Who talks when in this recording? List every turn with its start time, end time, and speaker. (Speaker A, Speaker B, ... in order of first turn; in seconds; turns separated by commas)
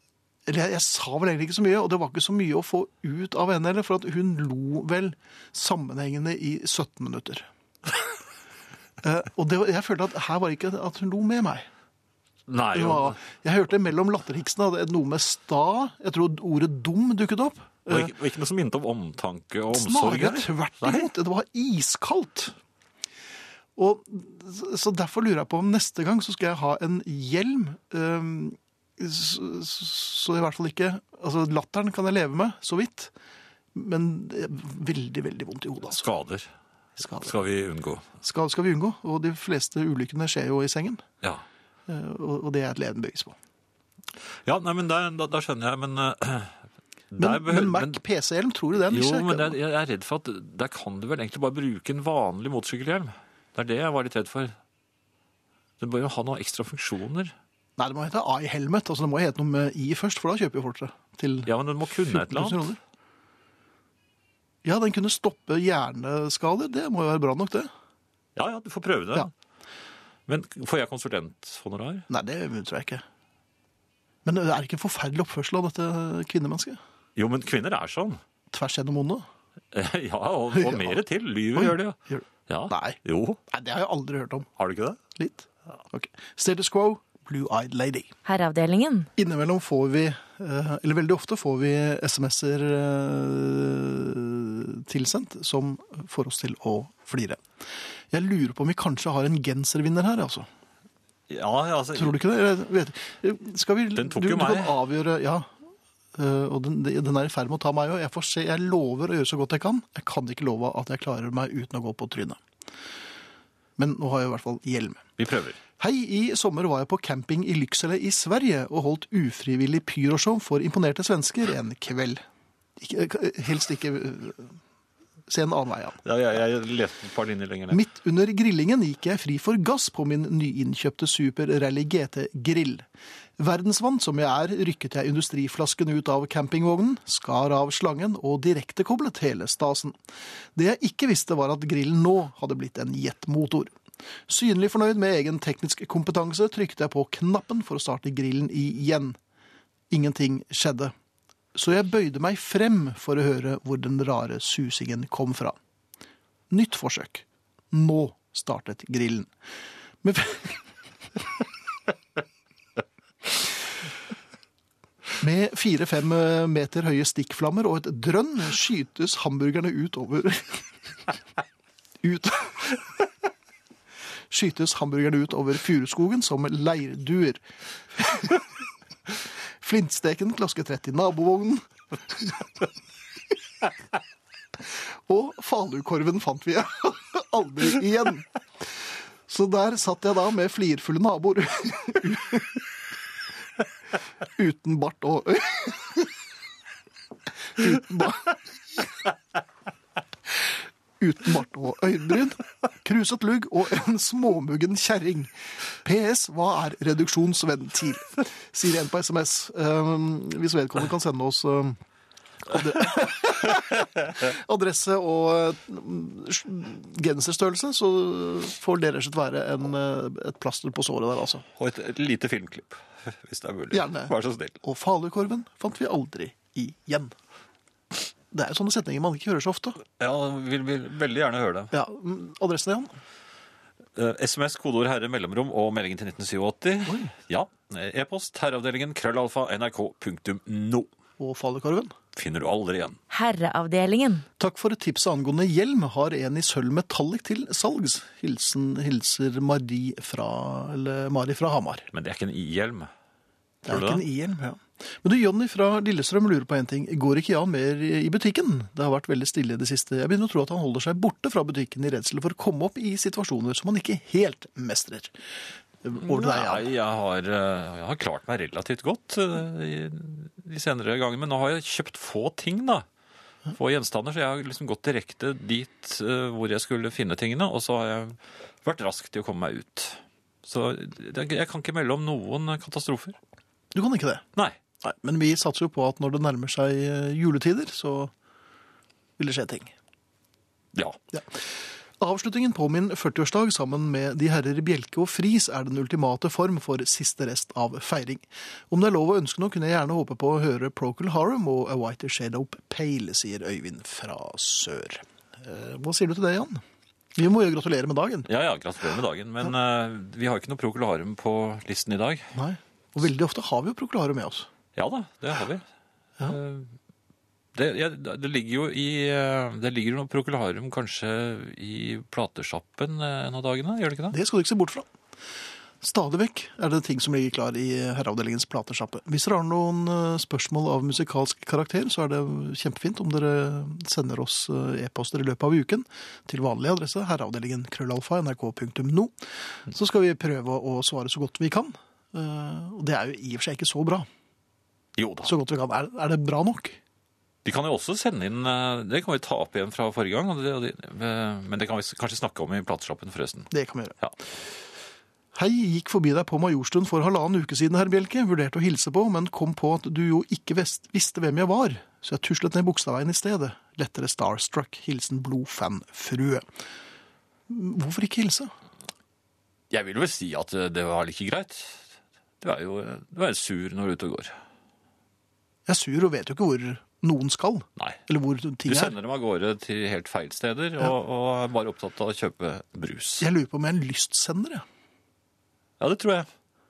Speaker A: 0.5-7.5, Speaker A: 9.0-11.7, Speaker B: 12.5-13.2, Speaker A: 12.7-18.1, Speaker B: 17.9-21.1, Speaker A: 19.7-22.6, Speaker A: 23.8-33.1, Speaker A: 33.7-36.0, Speaker B: 35.9-36.5, Speaker A: 37.0-37.3, Speaker B: 37.1-38.1, Speaker A: 38.2-41.0, Speaker A: 41.9-43.4, Speaker B: 44.5-46.6, Speaker B: 47.1-48.0, Speaker A: 47.2-49.6, Speaker B: 48.9-54.6, Speaker B: 55.8-57.3, Speaker A: 57.8-62.8, Speaker B: 61.5-62.7, Speaker A: 64.6-67.7, Speaker B: 68.4-69.3, Speaker B: 70.3-72.1, Speaker A: 72.1-73.0, Speaker A: 74.2-76.8, Speaker B: 77.2-78.2, Speaker A: 78.5-79.2, Speaker B: 79.7-83.4, Speaker A: 80.5-81.0, Speaker A: 81.5-84.5, Speaker B: 84.6-85.0, Speaker A: 85.2-88.1, Speaker C: 88.2-89.1, Speaker A: 89.2-97.4, Speaker A: 98.1-100.5, Speaker B: 101.3-102.2, Speaker A: 102.0-105.5, Speaker B: 104.0-104.8, Speaker A: 106.2-112.4, Speaker A: 113.8-115.1, Speaker B: 115.2-115.6, Speaker A: 115.8-122.2, Speaker A: 122.8-124.6, Speaker A: 125.3-126.0, Speaker B: 126.0-127.8, Speaker A: 127.7-132.8, Speaker A: 133.4-139.9, Speaker A: 140.6-143.7, Speaker A: 144.3-149.2, Speaker A: 149.9-150.9, Speaker A: 151.5-155.6, Speaker A: 156.5-159.3, Speaker A: 160.0-160.6, Speaker A: 165.2-170.6, Speaker A: 172.0-172.8, Speaker A: 174.3-177.4, Speaker A: 177.9-178.4, Speaker A: 179.6-182.4, Speaker A: 184.7-188.3, Speaker A: 189.3-192.6, Speaker A: 194.4-196.1, Speaker A: 197.6-198.8, Speaker A: 201.0-211.8, Speaker A: 212.4-221.4, Speaker B: 221.6-224.6, Speaker A: 223.7-227.1, Speaker A: 228.3-229.8, Speaker B: 229.8-231.7, Speaker A: 231.7-232.9, Speaker B: 234.0-240.9, Speaker A: 236.9-237.1, Speaker A: 241.2-241.9, Speaker B: 242.1-243.0, Speaker C: 243.1-244.2, Speaker A: 244.4-251.9, Speaker B: 251.9-252.9, Speaker A: 253.7-265.2, Speaker B: 253.7-254.0, Speaker A: 265.8-266.7, Speaker B: 266.0-272.9, Speaker B: 273.5-283.2, Speaker A: 283.7-284.2, Speaker A: 284.8-288.1, Speaker A: 289.2-289.7, Speaker A: 291.1-306.6, Speaker A: 307.2-308.3, Speaker B: 308.3-312.3, Speaker A: 312.4-314.5, Speaker B: 314.8-315.6, Speaker B: 316.3-316.7, Speaker B: 317.6-324.2, Speaker A: 324.1-324.9, Speaker A: 325.8-339.1, Speaker A: 339.7-344.1, Speaker B: 345.0-345.3, Speaker A: 345.2-346.8, Speaker B: 347.4-353.5, Speaker A: 353.5-354.0, Speaker A: 355.3-366.4, Speaker A: 367.5-368.5, Speaker B: 369.7-371.9, Speaker B: 372.4-374.4, Speaker A: 375.7-379.0, Speaker B: 378.6-383.3, Speaker A: 383.2-384.6, Speaker B: 385.8-386.3